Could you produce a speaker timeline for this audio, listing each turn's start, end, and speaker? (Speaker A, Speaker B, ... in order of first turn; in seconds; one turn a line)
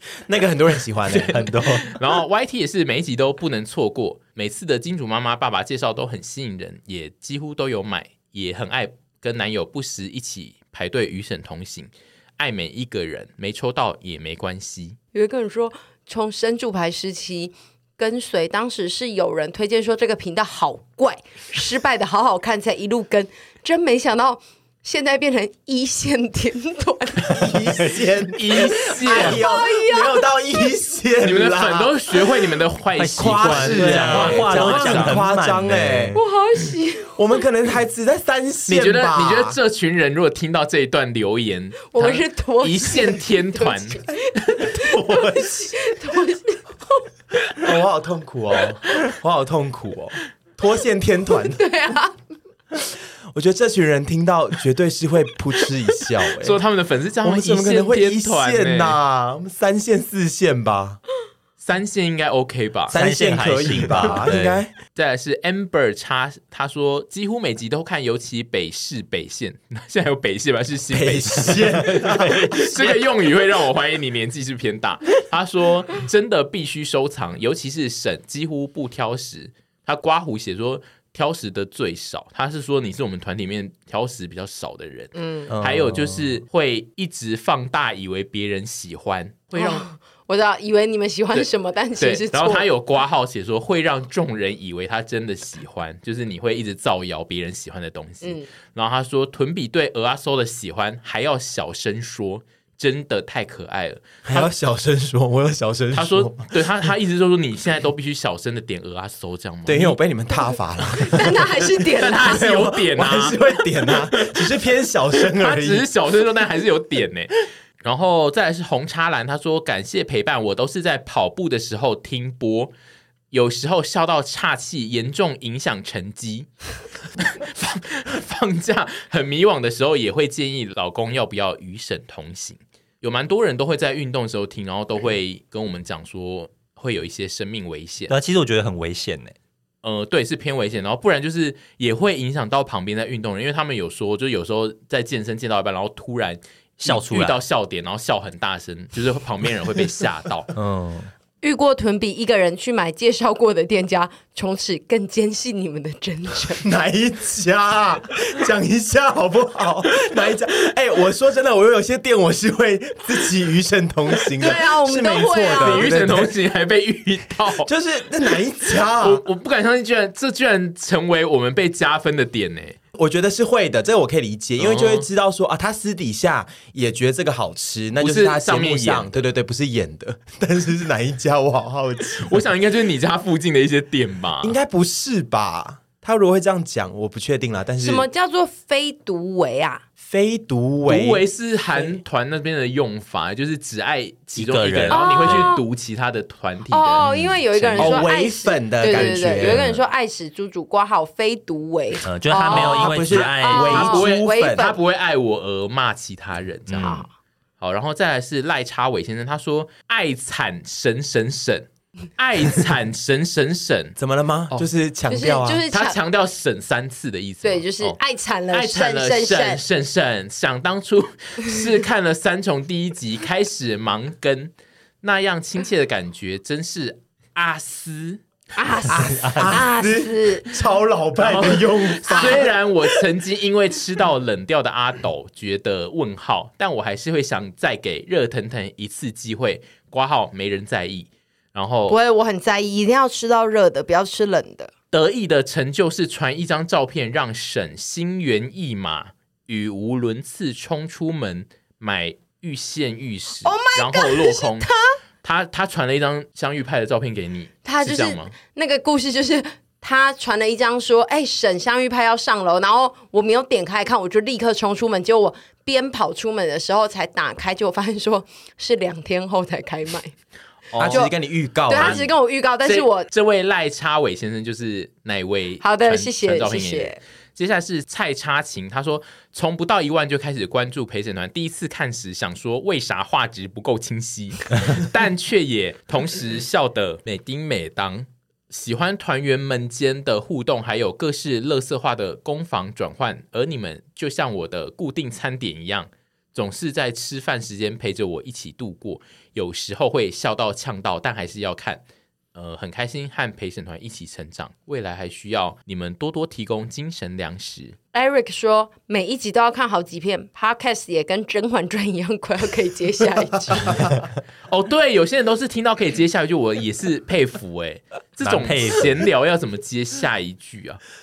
Speaker A: 0.2-1.4
Speaker B: 1.1-15.0
Speaker C: 1.2-1.9
Speaker D: 15.1-27.7
Speaker A: 27.3-31.9
Speaker B: 28.4-29.4
Speaker D: 28.6-30.6
Speaker B: 31.2-35.2
Speaker C: 33.0-36.2
Speaker A: 33.2-36.2
Speaker D: 36.1-37.2
Speaker A: 37.1-39.6
Speaker B: 38.7-44.0
Speaker D: 41.9-47.0
Speaker A: 47.6-51.6
Speaker D: 51.5-52.1
Speaker A: 53.3-56.6
Speaker B: 56.4-59.0
Speaker A: 57.2-61.0
Speaker B: 61.6-63.0
Speaker A: 62.9-64.7
Speaker C: 62.9-64.6
Speaker B: 64.9-89.8
Speaker A: 70.9-73.0
Speaker D: 85.2-85.5
Speaker C: 85.5-86.4
Speaker D: 89.5-92.7
Speaker B: 92.0-104.5
Speaker A: 104.2-106.5
Speaker B: 105.9-110.0
Speaker A: 109.7-115.9
Speaker D: 111.0-112.5
Speaker B: 112.0-114.5
Speaker B: 115.2-122.7
Speaker B: 123.3-126.5
Speaker B: 127.2-138.1
Speaker C: 138.1-139.3
Speaker B: 139.8-150.5
Speaker C: 146.8-147.4
Speaker C: 150.5-151.1
Speaker D: 151.4-156.7
Speaker A: 156.6-166.3
Speaker D: 164.4-165.9
Speaker B: 165.6-167.7
Speaker A: 167.6-169.2
Speaker B: 168.9-172.8
Speaker A: 172.9-182.4
Speaker B: 174.6-175.1
Speaker B: 178.0-179.1
Speaker B: 182.2-184.6
Speaker A: 184.4-188.1
Speaker D: 187.8-189.8
Speaker A: 190.0-191.2
Speaker B: 190.9-197.1
Speaker C: 194.3-195.5
Speaker D: 194.9-195.6
Speaker D: 196.7-204.8
Speaker C: 197.0-198.0
Speaker A: 197.8-199.6
Speaker C: 198.9-199.8
Speaker C: 202.0-203.9
Speaker A: 202.5-204.7
Speaker B: 203.7-207.0
Speaker C: 206.7-207.0
Speaker D: 206.8-207.1
Speaker B: 207.6-213.9
Speaker A: 214.0-215.6
Speaker D: 215.1-216.0
Speaker B: 215.7-218.0
Speaker D: 217.4-219.6
Speaker B: 218.5-228.2
Speaker D: 228.5-230.5
Speaker A: 228.9-232.5
Speaker C: 229.1-229.6
Speaker B: 231.2-242.0
Speaker D: 232.1-232.5
Speaker D: 241.9-244.7
Speaker B: 244.9-254.7
Speaker D: 253.4-254.9
Speaker B: 255.2-258.3
Speaker D: 257.6-270.1
Speaker B: 270.7-271.0
Speaker A: 270.7-272.1
Speaker D: 270.8-271.1
Speaker D: 271.7-273.1
Speaker B: 271.7-272.1
Speaker B: 272.6-301.8
Speaker D: 275.6-277.0
Speaker B: 302.3-307.8
Speaker D: 307.9-313.8
Speaker A: 313.5-313.9
Speaker B: 314.5-320.8
Speaker C: 318.2-319.0